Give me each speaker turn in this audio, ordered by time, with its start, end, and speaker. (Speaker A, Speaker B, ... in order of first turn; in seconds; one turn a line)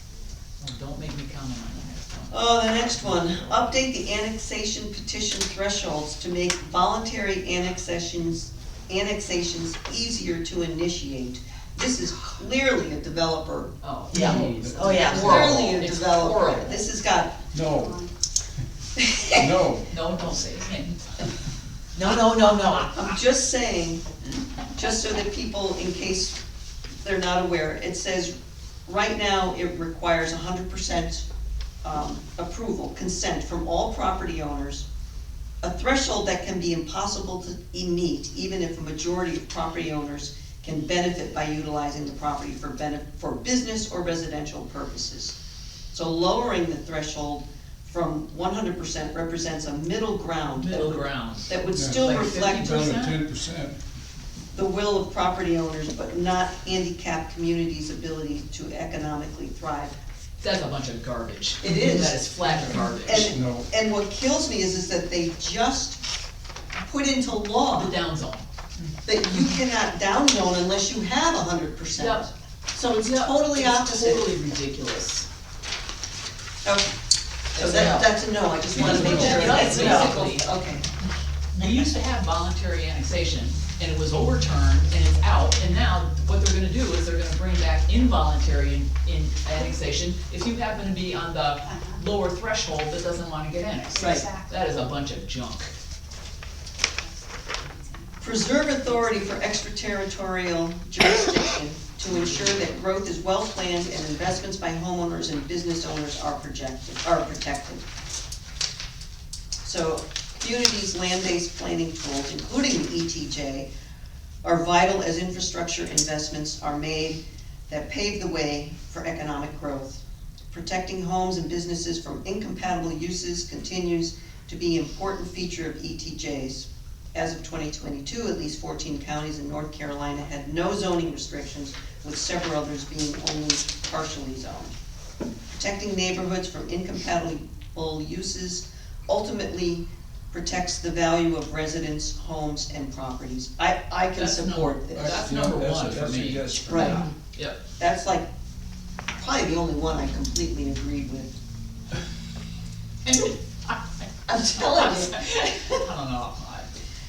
Speaker A: 0.6-3.8
Speaker B: 2.3-13.7
Speaker A: 13.8-16.9
Speaker C: 14.1-15.8
Speaker D: 14.1-15.5
Speaker B: 15.1-17.4
Speaker C: 17.5-18.1
Speaker B: 19.0-19.5
Speaker C: 19.3-20.0
Speaker A: 19.9-21.0
Speaker D: 21.9-23.0
Speaker B: 22.9-24.0
Speaker B: 24.7-26.4
Speaker B: 27.0-28.3
Speaker B: 28.9-31.2
Speaker B: 31.8-34.9
Speaker B: 35.6-45.4
Speaker B: 45.9-52.8
Speaker A: 50.5-53.2
Speaker C: 51.7-53.8
Speaker B: 54.5-60.0
Speaker A: 60.4-63.3
Speaker B: 61.6-62.2
Speaker B: 63.0-66.0
Speaker C: 63.1-63.7
Speaker B: 66.8-67.9
Speaker A: 67.7-68.5
Speaker B: 69.0-74.3
Speaker A: 72.0-72.2
Speaker A: 73.0-75.3
Speaker B: 76.6-76.9
Speaker D: 77.5-78.1
Speaker B: 77.5-80.8
Speaker D: 78.7-80.2
Speaker A: 78.7-80.5
Speaker C: 78.9-79.7
Speaker A: 81.5-95.7
Speaker B: 94.0-94.2
Speaker B: 98.2-107.8
Speaker B: 109.6-113.7
Speaker B: 114.4-134.7
Speaker B: 135.5-145.2
Speaker A: 144.1-147.6
Speaker C: 144.9-147.0
Speaker B: 146.7-147.1
Speaker B: 147.8-148.3
Speaker B: 149.1-151.3
Speaker A: 153.0-156.7
Speaker B: 154.3-155.1